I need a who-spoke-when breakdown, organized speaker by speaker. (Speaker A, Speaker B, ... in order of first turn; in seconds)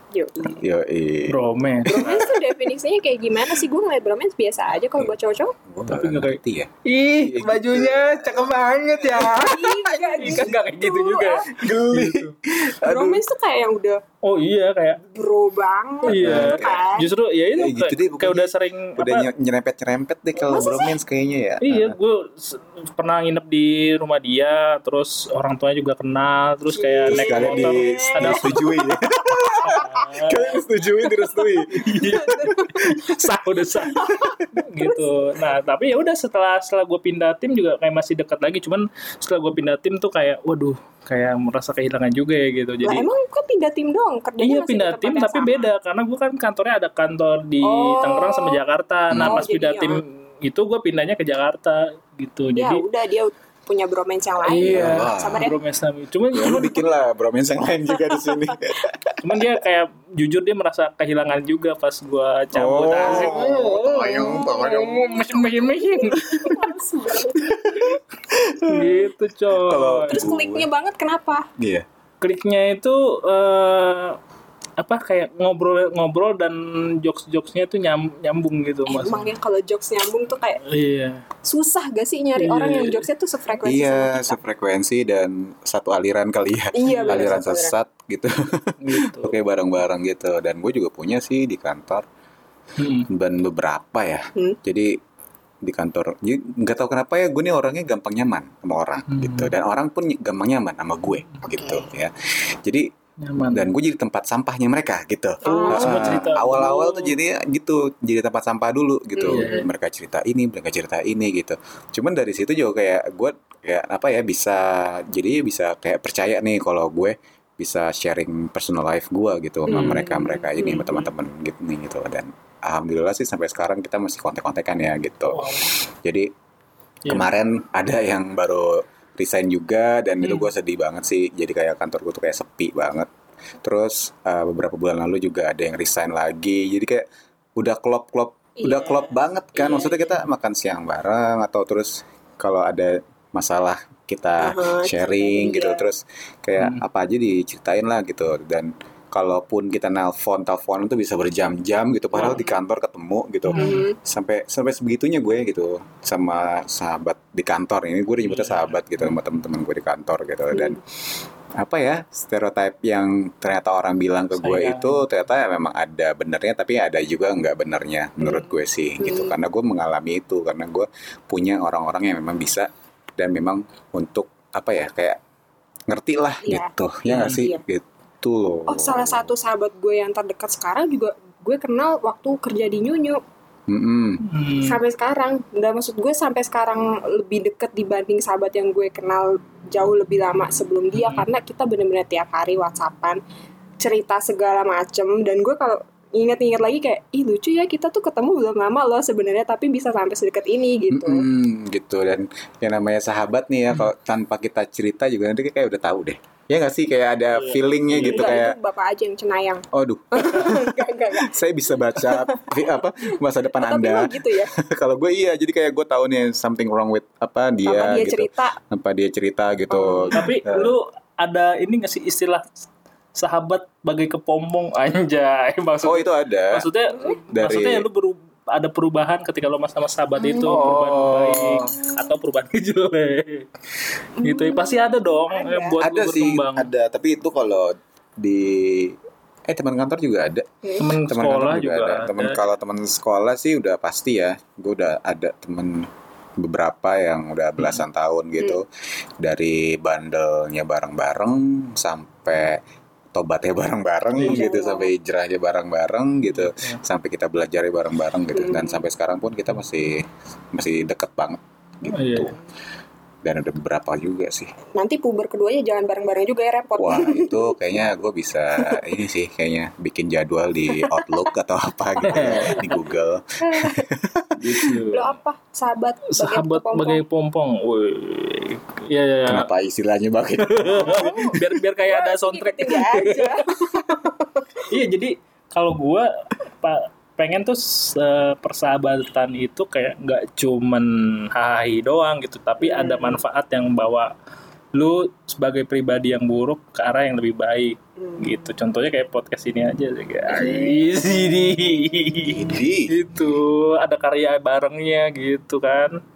Speaker A: 0.1-0.7, 1.9-5.5, 9.3-11.5, 12.8-14.0, 15.0-17.1, 20.4-21.0, 26.7-29.8, 32.0-33.1, 33.9-35.1, 42.8-45.7, 47.6-48.6, 49.2-50.0, 52.5-55.6, 63.1-63.5, 64.1-68.0, 70.1-71.5, 78.9-80.6, 81.4-84.4, 86.7-87.8, 101.5-101.9, 105.4-106.3, 109.2-109.7, 119.7-121.0, 138.6-139.9, 144.4-145.9, 153.5-154.0, 160.5-160.8, 168.2-169.3, 176.4-177.6, 178.7-183.2, 184.6-193.2, 193.8-201.3, 208.0-211.4, 211.9-212.6, 213.1-214.5, 217.7-218.6, 219.7-220.2, 230.2-230.8, 234.2-235.8, 254.2-254.9, 258.3-258.8, 264.8-267.5, 273.4-273.9, 274.9-277.0, 280.8-284.7, 292.6-293.2, 298.0-298.5, 300.3-300.9
Speaker B: 0.4-1.4, 5.7-9.5, 10.2-10.5, 11.5-13.2, 16.1-16.8, 17.6-22.0, 27.1-33.1, 34.1-34.4, 49.1-49.5, 54.6-55.5, 56.3-59.4, 62.5-65.3, 67.4-70.7, 71.6-71.9, 83.6-92.1, 93.1-95.0, 95.6-102.9, 103.5-126.3, 127.1-133.1, 133.6-137.1, 137.6-160.8, 161.6-175.2, 175.9-179.3, 183.7-184.3, 200.9-208.6, 209.7-220.8, 225.8-226.7, 227.3-227.9, 230.4-231.8, 235.8-248.7, 249.2-252.6, 253.1-262.4, 263.2-264.5, 266.8-274.8, 279.3-281.2, 302.2-302.9
Speaker C: 1.3-2.3, 5.9-12.3, 14.2-15.0, 16.1-19.3, 21.6-28.7, 29.6-30.6, 31.7-43.1, 44.4-52.9, 54.5-56.9, 59.2-66.7, 68.7-70.3, 72.2-74.2, 74.8-79.3, 80.6-81.2, 82.4-83.1, 86.9-87.4, 88.8-89.4, 92.8-93.1, 99.1-99.5, 103.2-103.7, 105.5-107.2, 109.2-109.7, 119.7-120.1, 125.3-125.7, 130.2-130.5, 146.6-146.8, 153.5-153.8, 158.3-159.1, 164.4-165.1, 177.1-177.4, 184.2-184.8, 190.9-191.2, 207.3-208.4, 220.1-222.5, 223.2-233.5, 234.2-236.7, 240.8-242.5, 254.2-254.4, 256.3-256.8, 261.9-262.3, 272.0-272.7, 274.4-275.1, 276.1-279.5, 280.4-283.9, 284.6-294.1, 294.8-306.0